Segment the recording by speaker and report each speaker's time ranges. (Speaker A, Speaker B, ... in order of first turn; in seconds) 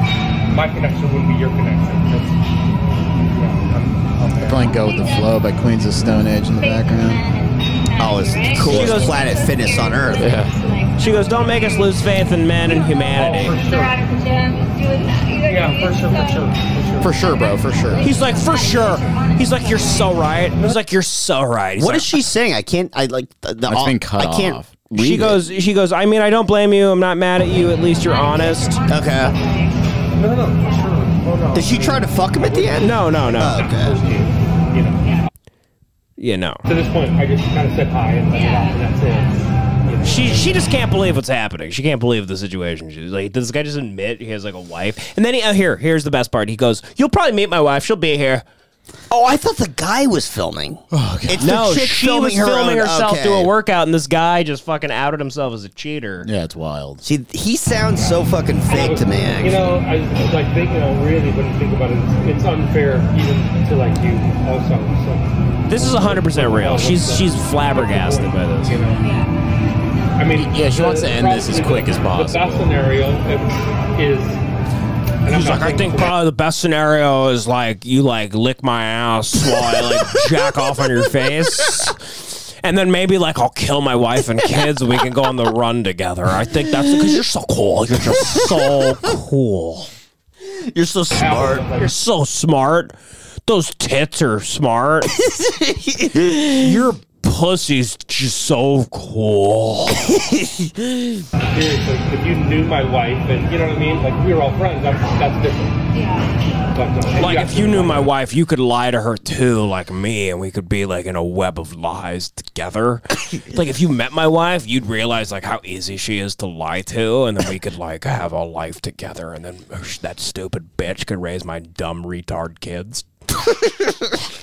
Speaker A: 0.5-2.4, 3.3-4.6, 13.2-13.9, 15.5-17.1, 30.1-35.2, 36.6-40.7, 58.6-69.1, 70.2-74.4, 75.2-76.2, 91.1-91.9, 101.5-105.8, 106.7-108.1
Speaker B: 4.4-7.2, 10.2-10.5, 17.0-18.1, 23.6-24.8, 50.9-51.6, 56.2-57.0, 70.3-72.8
Speaker C: 4.8-5.3, 6.6-11.7, 12.8-16.5, 17.1-20.1, 28.0-29.7, 30.6-30.9, 38.3-39.2, 69.0-69.3, 105.9-106.3
Speaker D: 8.0-10.3, 21.8-25.4, 28.9-29.4, 31.5-34.0, 49.1-53.5, 57.0-59.8, 90.5-91.7, 95.2-96.7, 100.0-101.2
Speaker E: 8.6-9.2, 11.0-13.6, 18.0-22.2, 24.9-28.8, 32.8-33.6, 36.2-36.6, 40.0-48.5, 51.4-56.3, 65.7-68.8, 75.2-89.9, 91.8-92.9, 93.5-95.2, 96.4-100.1, 107.1-123.0